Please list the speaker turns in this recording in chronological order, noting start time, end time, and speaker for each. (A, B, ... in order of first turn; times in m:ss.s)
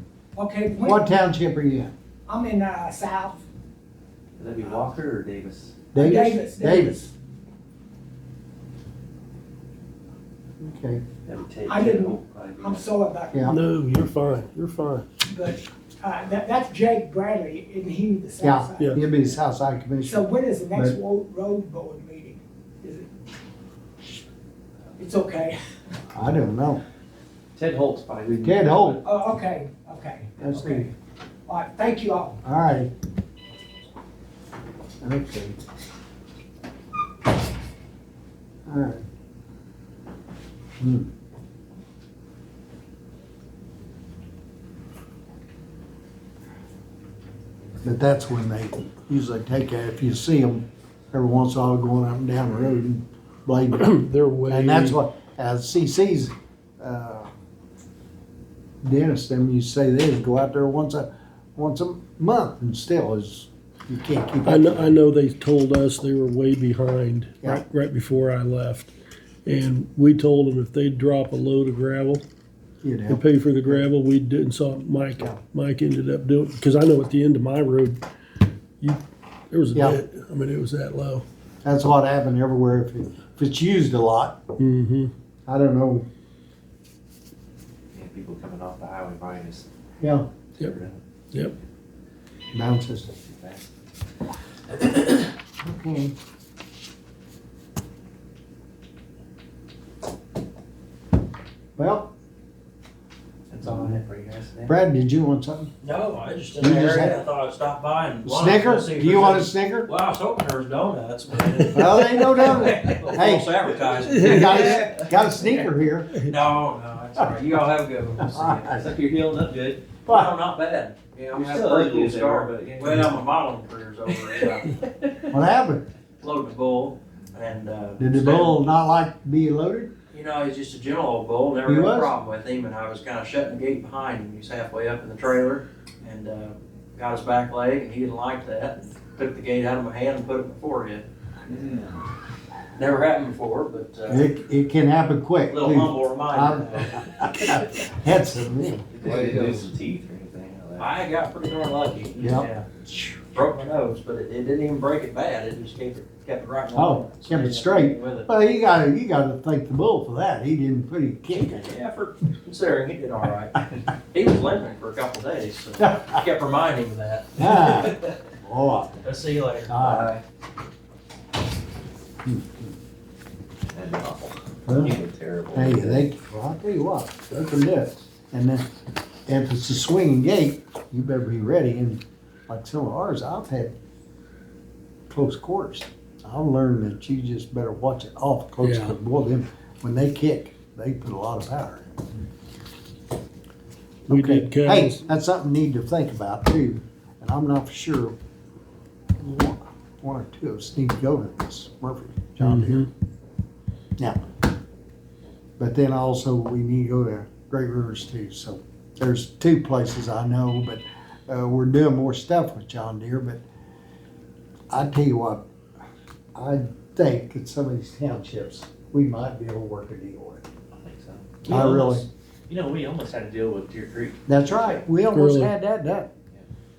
0:00.3-0:01.2 A
0:00.8-0:01.9 B
0:02.3-0:03.4 A
0:04.4-0:05.8 C
0:05.9-0:07.1 B
0:05.9-0:07.0 A
0:10.6-0:11.0 B
0:11.2-0:12.9 C
0:11.6-0:13.6 A
0:13.3-0:13.6 B
0:13.4-0:15.0 D
0:15.2-0:19.0 A
0:18.4-0:21.0 B
0:20.0-0:23.1 A
0:25.0-0:25.6 A
0:26.1-0:26.8 B
0:27.5-0:29.0 C
0:28.4-0:29.0 B
0:29.0-0:30.9 A
0:30.4-0:30.9 B
0:31.4-0:32.4 A
0:32.4-0:32.9 B
0:35.0-0:35.6 B
0:38.6-0:39.0 B
0:40.8-0:41.1 B
0:47.8-0:53.9 B
0:53.8-0:55.0 D
0:54.5-0:57.3 B
0:58.8-1:05.0 B
1:04.4-1:08.9 D
1:09.4-1:12.2 D
1:12.8-1:13.9 B
1:13.1-1:18.0 D
1:19.5-1:21.2 D
1:19.7-1:20.0 B
1:21.6-1:24.4 B
1:24.6-1:25.1 D
1:25.4-1:26.0 B
1:27.9-1:29.7 C
1:30.0-1:30.3 B
1:30.6-1:31.0 C
1:32.5-1:33.1 B
1:33.2-1:33.7 C
1:35.6-1:36.1 B
1:41.8-1:42.1 B
1:43.5-1:44.7 C
1:43.7-1:43.9 E
1:44.6-1:45.7 B
1:45.8-1:55.5 E
1:46.6-1:47.2 B
1:48.2-1:49.9 B
1:51.7-1:53.6 B
1:54.1-1:56.2 B
1:54.2-1:54.7 D
1:54.8-1:55.0 C
1:56.2-1:58.9 E
1:58.2-1:58.8 B
1:58.7-1:59.9 C
2:00.0-2:00.3 B
2:00.0-2:04.7 E
2:01.3-2:03.2 C
2:04.1-2:05.2 C
2:05.3-2:05.8 B
2:06.2-2:08.6 E
2:08.0-2:09.9 B
2:10.1-2:21.1 E
2:11.6-2:12.1 B
2:21.5-2:22.0 C
2:22.8-2:24.3 E
2:24.1-2:29.7 B
2:25.5-2:27.0 E
2:28.9-2:31.0 C
2:29.0-2:29.7 E
2:30.8-2:32.7 E
2:32.2-2:33.2 B
2:33.3-2:38.3 E
2:36.7-2:41.8 B
2:41.4-2:48.0 E
2:45.8-2:46.2 B
2:47.4-2:49.0 B
2:49.0-2:50.1 E
2:49.7-2:50.1 B
2:49.8-2:50.2 C
2:52.2-2:52.7 B
2:53.7-2:56.0 C
2:54.6-2:55.0 B
2:55.5-2:58.7 B
2:59.3-3:03.7 B
3:05.1-3:12.0 B
3:08.6-3:09.0 D
3:14.1-3:18.2 B
3:14.1-3:15.0 D
3:19.2-3:22.9 B
3:22.4-3:22.9 D
3:25.6-3:33.4 B
3:34.7-3:35.4 B
3:36.3-3:40.4 B
3:40.8-3:44.8 C
3:41.4-3:42.1 B
3:44.3-3:46.1 B
3:45.1-3:45.5 D